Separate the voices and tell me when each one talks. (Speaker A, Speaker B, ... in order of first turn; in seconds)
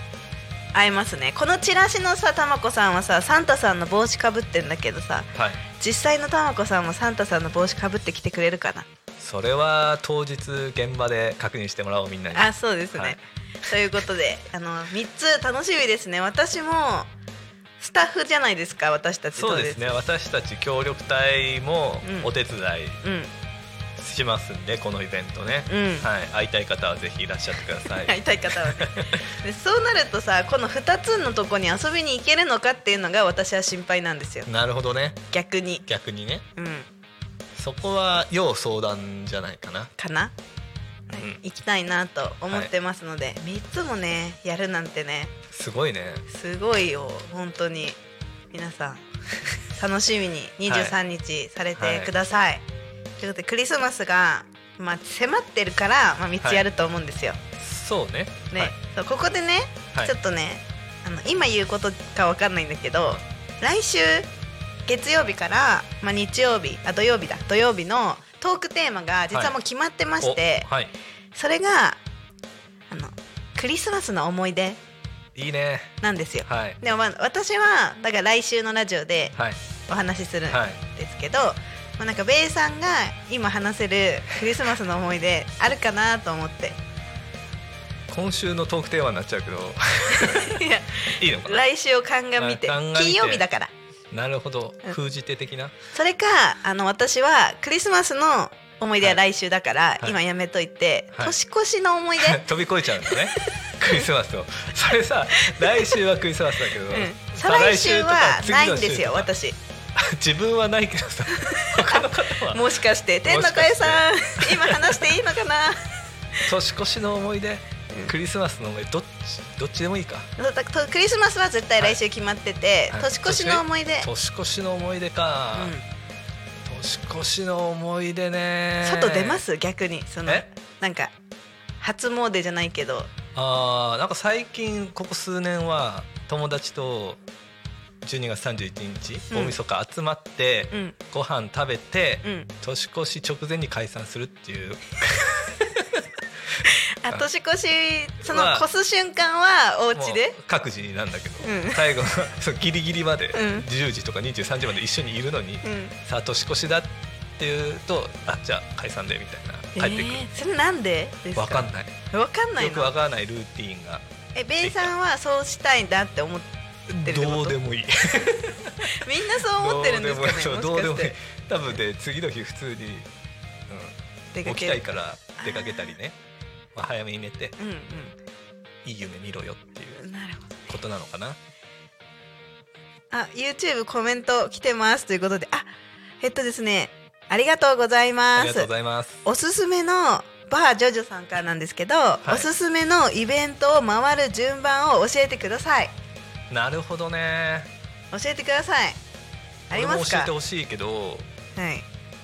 Speaker A: 0.7-8.9, 12.3-17.1, 17.8-20.0, 22.0-22.3, 23.0-23.3, 25.7-26.1, 28.0-34.5, 35.3-35.9, 36.6-36.9, 40.0-40.3, 41.1-45.3, 46.3-48.0, 48.5-49.0, 49.7-52.6, 53.2-57.4, 58.5-64.3, 64.9-70.7, 71.3-72.0, 72.9-74.8, 76.0-79.4, 79.9-86.8, 90.1-93.7, 95.9-104.0, 105.3-106.0, 106.9-109.6, 111.4-115.8, 120.4-124.1, 125.5-125.8, 128.8-131.1, 131.8-133.1, 139.3-139.6, 142.2-142.5, 147.0-150.4, 151.4-151.8, 153.3-153.7, 155.6-155.9, 159.8-162.9, 164.3-166.5, 167.0-167.6, 168.9-171.2, 174.3-176.0, 177.6-178.2, 179.9-180.7, 183.1-185.7, 186.2-188.7, 189.2-195.9, 198.1-199.0, 199.7-200.3, 201.6-201.9
Speaker B: 5.3-5.6, 9.2-13.2, 19.4-23.0, 24.0-29.2, 34.5-35.2, 35.9-36.5, 37.5-39.9, 41.1-41.4, 45.5-46.2, 50.7-51.0, 51.8-52.1, 57.6-58.7, 70.2-70.9, 75.3-76.0, 76.5-76.8, 80.5-80.8, 88.1-91.7, 92.4-93.5, 94.1-95.8, 102.2-109.3, 110.0-115.1, 116.5-120.3, 122.9-125.7, 126.7-129.4, 133.3-137.2, 138.0-147.3, 148.2-148.7, 149.9-160.3, 161.4-161.9, 162.6-164.1, 164.6-164.9, 166.9-173.1, 173.7-176.2, 176.8-177.6, 178.8-180.0, 180.7-181.4, 188.3-189.2, 196.5-197.7, 199.7-201.3